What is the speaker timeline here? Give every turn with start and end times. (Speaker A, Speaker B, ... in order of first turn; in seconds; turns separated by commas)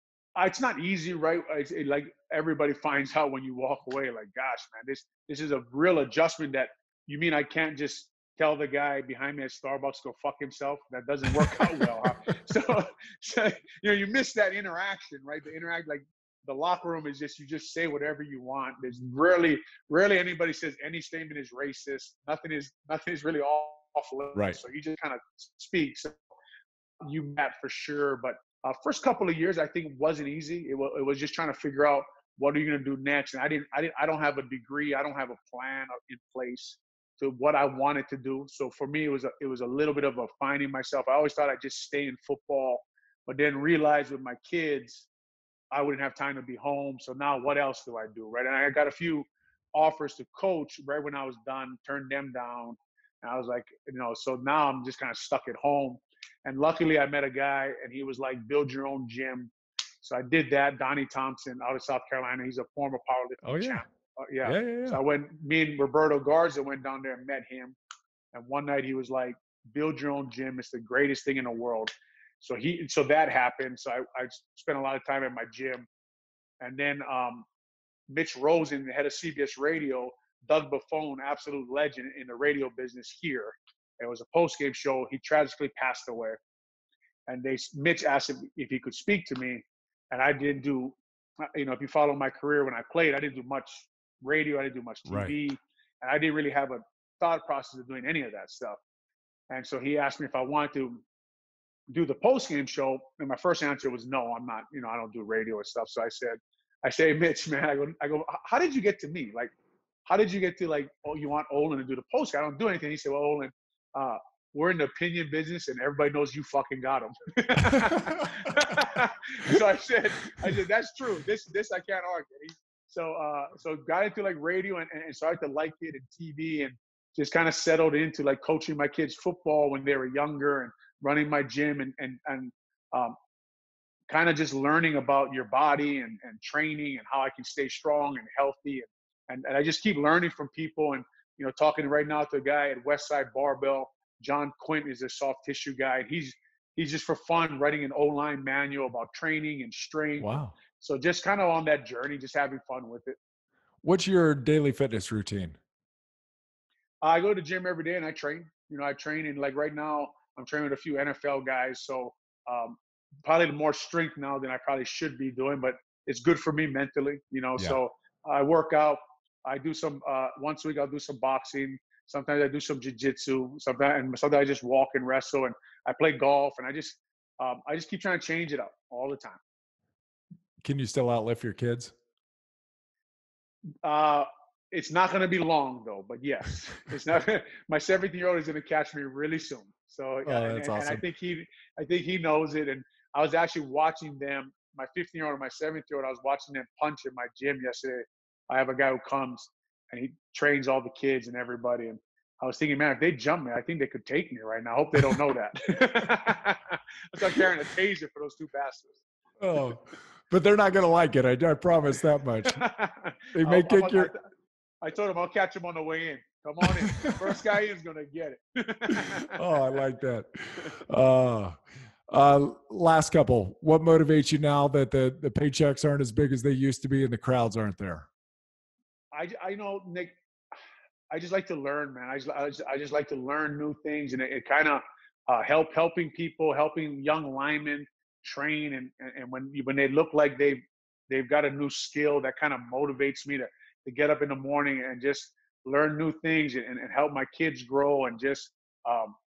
Speaker A: 0.3-26.2, Speaker A: 27.0-45.1, Speaker A: 45.7-67.8, Speaker B: 63.4-63.8, Speaker B: 64.4-65.0, Speaker A: 68.3-75.9, Speaker A: 76.6-77.5, Speaker A: 78.1-86.4, Speaker A: 87.3-98.8, Speaker B: 95.0-95.3, Speaker A: 99.5-101.0, Speaker A: 101.9-109.5, Speaker A: 110.0-133.2, Speaker B: 117.7-118.5, Speaker A: 134.1-153.2, Speaker B: 150.2-150.5, Speaker B: 153.8-155.6, Speaker A: 157.0-179.4, Speaker B: 180.6-181.9, Speaker A: 183.8-209.0, Speaker B: 190.2-191.0, Speaker B: 209.4-212.7, Speaker A: 212.4-214.2, Speaker B: 213.3-214.1, Speaker A: 214.8-219.4, Speaker B: 218.9-228.1, Speaker A: 229.1-230.1, Speaker A: 231.1-249.2